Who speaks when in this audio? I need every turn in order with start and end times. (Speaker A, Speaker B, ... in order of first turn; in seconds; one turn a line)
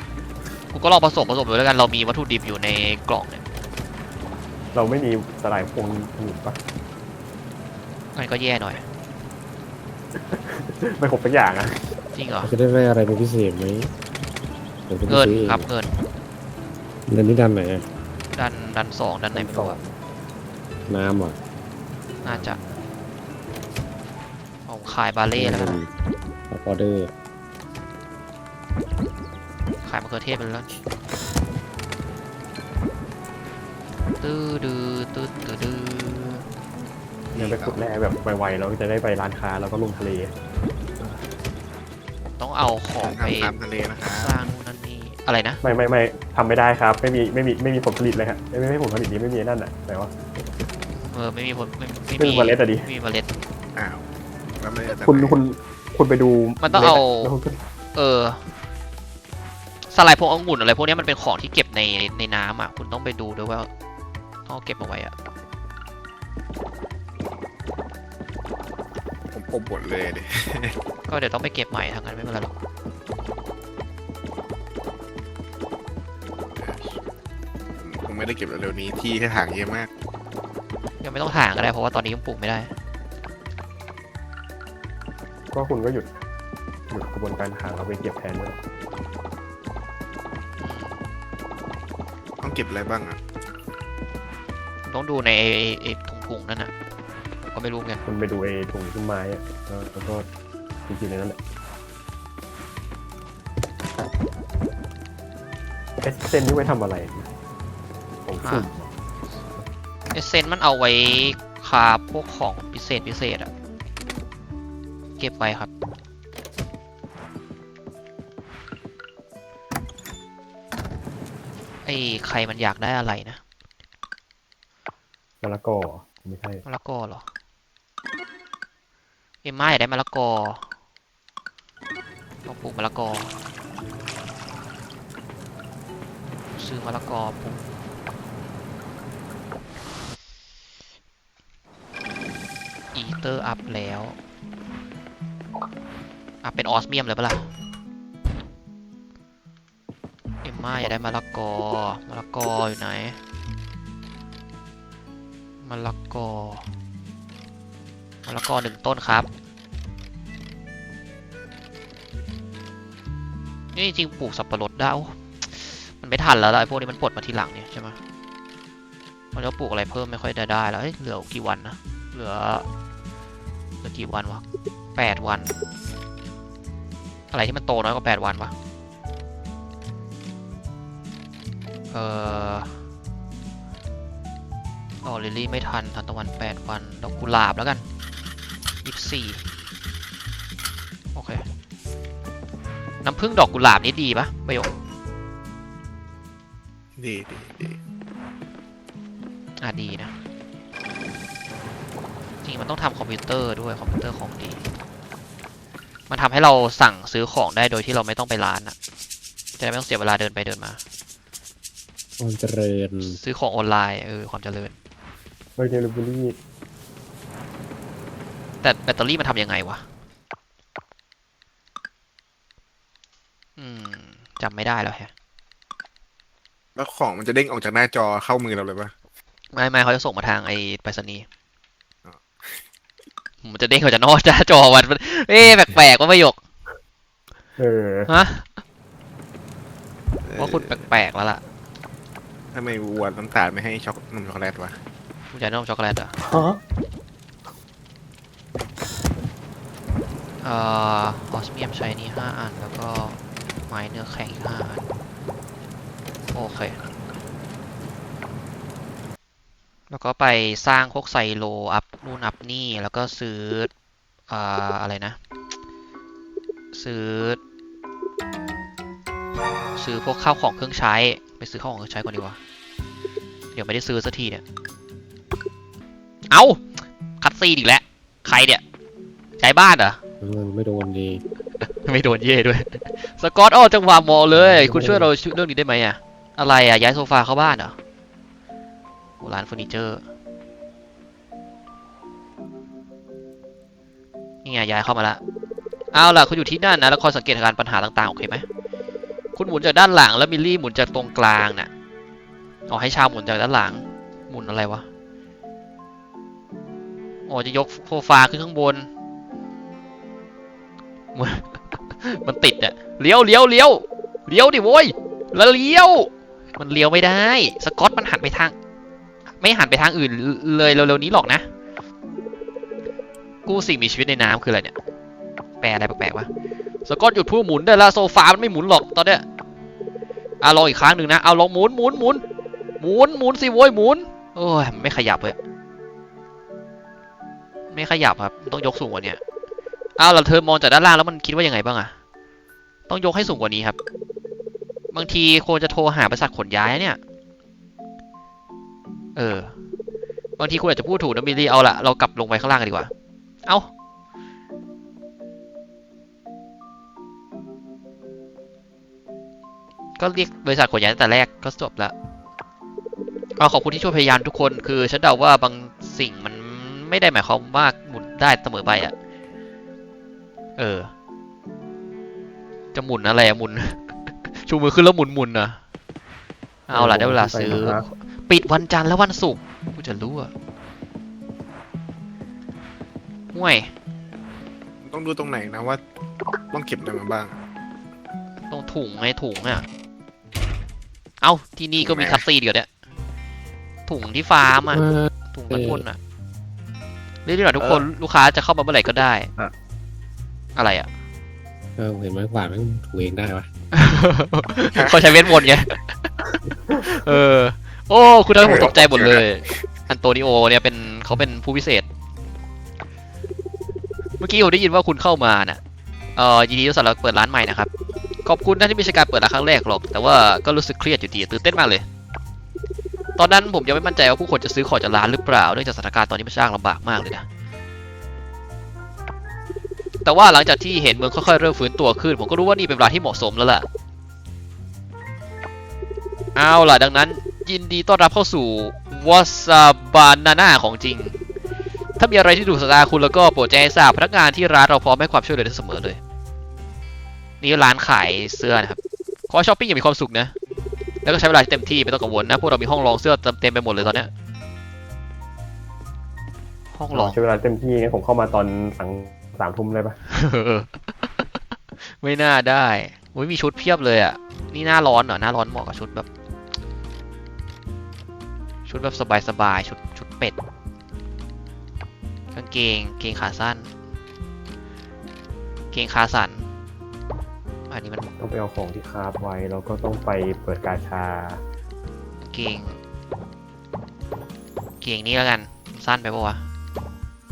Speaker A: 0.7-3.4
Speaker B: 4.7-6.6
Speaker A: 8.1-8.8
Speaker B: 10.1-11.8
Speaker A: 12.1-12.5
Speaker C: 12.4-13.9
Speaker C: 14.9-15.7
Speaker A: 15.1-16.0
Speaker C: 17.1-17.9
Speaker A: 18.3-19.8
Speaker B: 19.3-19.8
Speaker C: 20.9-21.4
Speaker A: 22.2-22.6
Speaker B: 22.2-22.8
Speaker A: 24.6-25.8
Speaker C: 25.3-25.9
Speaker C: 26.5-27.1
Speaker A: 29.8-30.7
Speaker A: 34.2-36.5
Speaker D: 37.3-37.9
Speaker B: 37.4-40.3
Speaker A: 42.4-45.6
Speaker D: 43.0-44.4
Speaker B: 45.6-50.1
Speaker A: 51.1-53.3
Speaker B: 52.2-52.9
Speaker D: 53.8-54.0
Speaker D: 54.6-55.4
Speaker B: 54.9-57.6
Speaker A: 56.6-57.3
Speaker A: 57.9-58.4
Speaker A: 59.9-63.7
Speaker A: 64.5-65.1
Speaker D: 69.3-70.8
Speaker A: 71.1-72.5
Speaker D: 76.5-77.0
Speaker D: 77.8-79.9
Speaker A: 81.0-82.7
Speaker B: 85.5-86.1
Speaker B: 86.9-88.6
Speaker A: 90.6-91.0
Speaker D: 92.4-93.2
Speaker A: 94.8-96.7
Speaker A: 97.4-98.0
Speaker B: 98.0-100.3
Speaker B: 100.8-101.4
Speaker B: 106.0-107.3
Speaker B: 108.2-109.7
Speaker A: 108.4-108.7
Speaker A: 110.1-113.5
Speaker A: 115.2-115.7
Speaker A: 121.8-123.4
Speaker B: 125.4-126.6
Speaker A: 126.6-127.2
Speaker A: 129.4-130.6
Speaker A: 132.4-133.3
Speaker A: 136.6-137.7
Speaker A: 142.9-144.2
Speaker A: 146.4-147.4
Speaker A: 150.4-153.2
Speaker A: 155.6-156.7
Speaker A: 158.2-159.3
Speaker A: 163.7-168.0
Speaker A: 169.3-172.7
Speaker A: 173.8-174.4
Speaker A: 174.9-175.5
Speaker A: 177.3-178.5
Speaker A: 181.9-182.7
Speaker A: 185.0-187.8
Speaker A: 188.8-189.4
Speaker A: 191.1-191.4
Speaker A: 193.0-194.7
Speaker D: 197.0-197.8
Speaker A: 199.6-200.1
Speaker A: 202.4-204.6
Speaker A: 206.1-208.7
Speaker A: 209.6-210.8
Speaker C: 212.2-213.2
Speaker A: 213.0-214.7
Speaker B: 215.6-216.4
Speaker A: 218.6-219.8
Speaker A: 223.6-225.1
Speaker D: 226.8-228.9
Speaker A: 229.5-231.2
Speaker D: 232.0-232.6
Speaker A: 233.4-236.4
Speaker B: 237.6-238.1
Speaker A: 238.1-238.5
Speaker D: 240.2-240.8
Speaker A: 240.3-241.4
Speaker D: 242.5-244.8
Speaker A: 245.3-246.2
Speaker B: 246.2-246.6
Speaker A: 250.4-254.9
Speaker A: 256.3-256.8
Speaker A: 259.9-263.7
Speaker A: 264.3-265.2
Speaker A: 266.7-267.4
Speaker A: 269.7-272.4
Speaker A: 273.5-274.4
Speaker A: 276.3-276.6
Speaker A: 277.2-278.6
Speaker A: 279.4-280.0
Speaker C: 280.2-281.2
Speaker A: 281.6-287.8
Speaker B: 284.3-285.1
Speaker A: 289.2-290.0
Speaker A: 294.4-295.2
Speaker A: 295.9-298.4
Speaker A: 299.3-301.7
Speaker A: 302.7-304.9
Speaker A: 307.3-308.9
Speaker A: 311.1-318.5
Speaker A: 319.4-321.5
Speaker A: 323.4-324.7
Speaker A: 325.6-326.3
Speaker A: 326.9-329.2
Speaker A: 330.4-332.2
Speaker A: 332.8-335.4
Speaker A: 337.7-339.2
Speaker A: 340.0-341.9
Speaker A: 342.9-343.8
Speaker A: 344.9-347.0
Speaker A: 349.1-349.5
Speaker A: 350.4-352.9
Speaker A: 360.0-361.9
Speaker A: 363.4-368.9
Speaker A: 370.6-370.9
Speaker A: 372.7-375.6
Speaker A: 376.7-380.3
Speaker B: 376.7-377.8
Speaker A: 383.3-383.7
Speaker D: 384.8-385.8
Speaker D: 386.5-387.4
Speaker A: 388.5-389.6
Speaker A: 391.2-392.7
Speaker D: 391.8-392.2
Speaker A: 393.9-396.0
Speaker C: 394.7-395.8
Speaker A: 397.2-399.3
Speaker D: 397.6-397.9
Speaker A: 400.6-400.9
Speaker C: 401.8-403.5
Speaker A: 403.7-411.9
Speaker D: 404.7-405.6
Speaker D: 408.4-409.6
Speaker A: 414.2-415.6
Speaker A: 416.1-417.7
Speaker A: 418.2-421.8
Speaker A: 423.2-427.2
Speaker A: 430.0-433.7
Speaker A: 436.4-441.2
Speaker A: 442.0-446.0
Speaker A: 447.4-448.8
Speaker A: 449.3-450.3
Speaker A: 451.0-454.1
Speaker A: 456.7-457.2
Speaker B: 456.9-460.0
Speaker A: 460.1-461.3
Speaker A: 461.8-466.1
Speaker A: 468.6-470.4
Speaker A: 472.3-473.7
Speaker A: 475.7-476.4
Speaker A: 477.7-478.1
Speaker B: 478.2-481.4
Speaker A: 482.2-482.8
Speaker A: 484.8-486.4